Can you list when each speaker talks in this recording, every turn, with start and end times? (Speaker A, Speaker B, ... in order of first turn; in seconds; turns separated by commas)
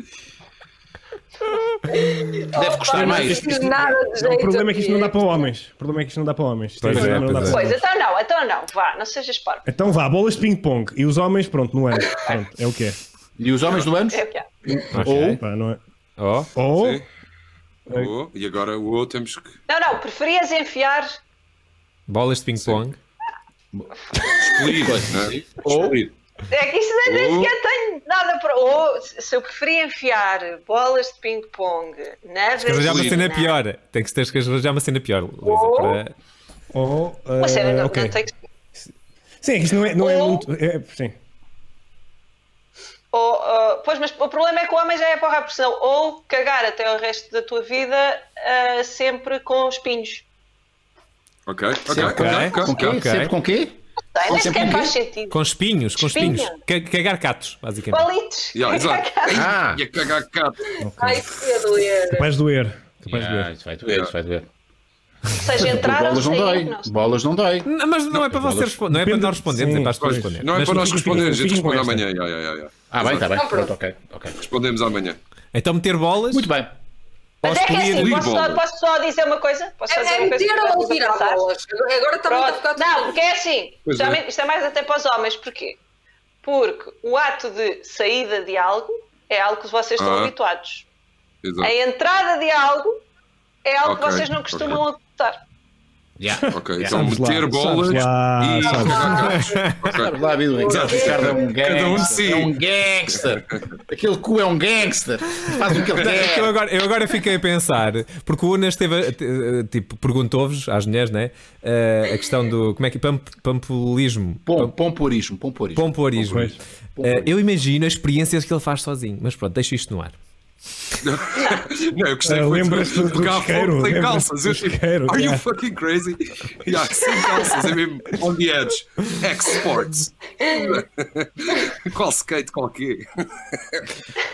Speaker A: 1.9-5.4, Speaker B: 2.5-3.7, Speaker C: 2.9-7.8, Speaker D: 6.8-7.7, Speaker E: 7.0-9.6, Speaker C: 9.7-13.0, Speaker B: 13.4-15.4, Speaker E: 14.1-14.4, Speaker D: 14.9-15.4, Speaker C: 15.4-15.8, Speaker D: 16.2-16.5, Speaker C: 16.5-17.0, Speaker F: 16.7-17.1, Speaker F: 17.9-19.6, Speaker E: 19.7-21.2, Speaker D: 22.1-22.9, Speaker F: 24.4-26.1, Speaker B: 24.6-26.1, Speaker E: 26.5-33.5, Speaker F: 27.1-27.5, Speaker D: 32.6-36.1, Speaker F: 32.8-33.2, Speaker A: 35.4-36.0, Speaker C: 36.7-38.2, Speaker E: 37.4-38.3, Speaker C: 39.4-41.2, Speaker E: 40.0-40.5, Speaker E: 43.1-50.2, Speaker F: 51.5-53.0, Speaker B: 51.9-54.9, Speaker D: 51.9-53.3, Speaker E: 54.1-55.4, Speaker D: 55.3-58.1, Speaker E: 56.0-56.6, Speaker E: 57.9-59.5, Speaker F: 58.5-60.6, Speaker B: 59.3-59.8, Speaker C: 60.8-61.3, Speaker A: 61.0-62.3, Speaker C: 62.1-63.5, Speaker B: 63.1-64.5, Speaker E: 65.3-66.9, Speaker B: 65.5-68.8, Speaker D: 67.6-71.3, Speaker C: 68.9-72.0, Speaker F: 70.4-73.3, Speaker B: 72.9-74.4, Speaker A: 73.3-73.7, Speaker F: 74.3-75.2, Speaker D: 75.5-76.5, Speaker B: 76.3-76.7, Speaker D: 77.4-78.2, Speaker E: 77.4-81.4, Speaker F: 77.5-78.6, Speaker A: 79.9-83.2, Speaker E: 82.3-85.8, Speaker F: 83.8-84.2, Speaker E: 86.4-90.8, Speaker F: 90.0-90.3, Speaker F: 91.4-91.7, Speaker E: 91.6-93.0, Speaker E: 93.6-95.4, Speaker F: 93.8-94.8, Speaker B: 96.2-97.1, Speaker C: 96.3-99.2, Speaker F: 96.5-100.1, Speaker D: 99.2-99.9, Speaker B: 99.9-106.5, Speaker A: 100.6-102.1, Speaker F: 100.6-102.5, Speaker D: 105.7-114.7, Speaker B: 114.5-116.5, Speaker D: 115.7-120.2, Speaker C: 116.2-116.5, Speaker B: 117.0-117.3, Speaker F: 121.0-133.9, Speaker C: 122.2-125.4, Speaker A: 130.4-130.8